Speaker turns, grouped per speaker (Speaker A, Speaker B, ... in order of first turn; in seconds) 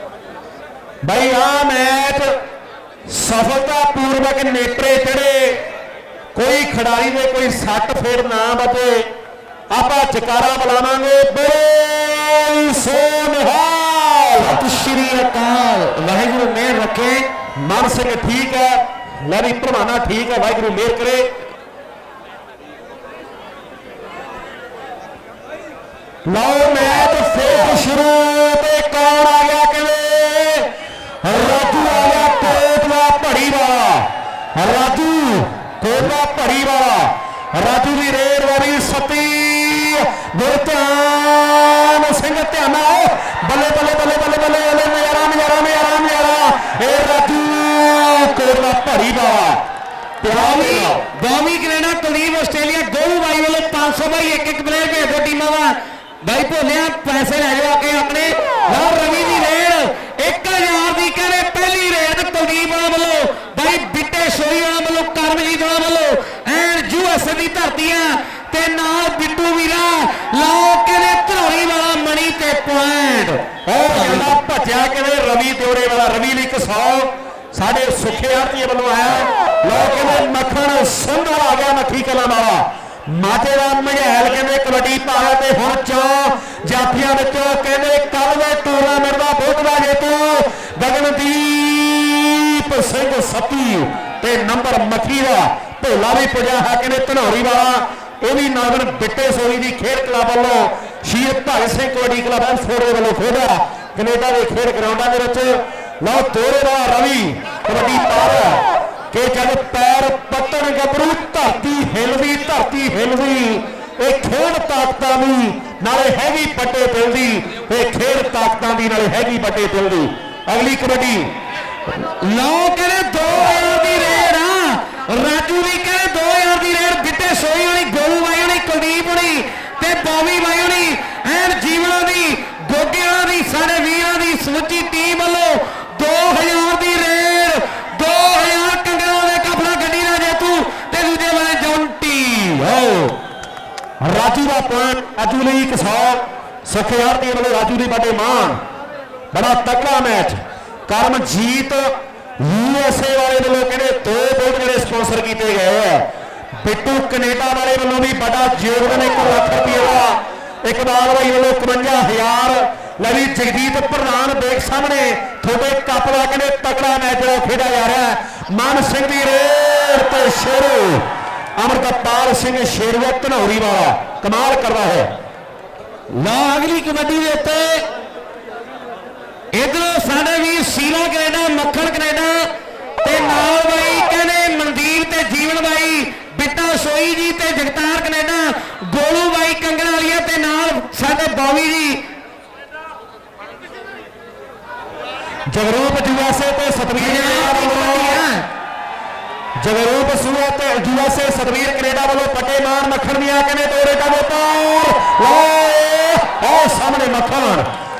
Speaker A: 1.0-2.3, 3.1-5.6, 6.3-9.1, 9.7-14.6, 17.6-21.3, 26.3-30.7, 31.2-49.6, 50.2-51.0, 73.7-121.3, 144.0-148.6, 149.3-156.1, 156.6-171.1, 171.6-175.1, 195.5-198.2, 199.6-207.7
Speaker B: 14.4-17.3, 50.3-74.3, 121.9-143.1, 176.1-177.8, 179.5-182.5, 183.0-192.0, 197.0-198.5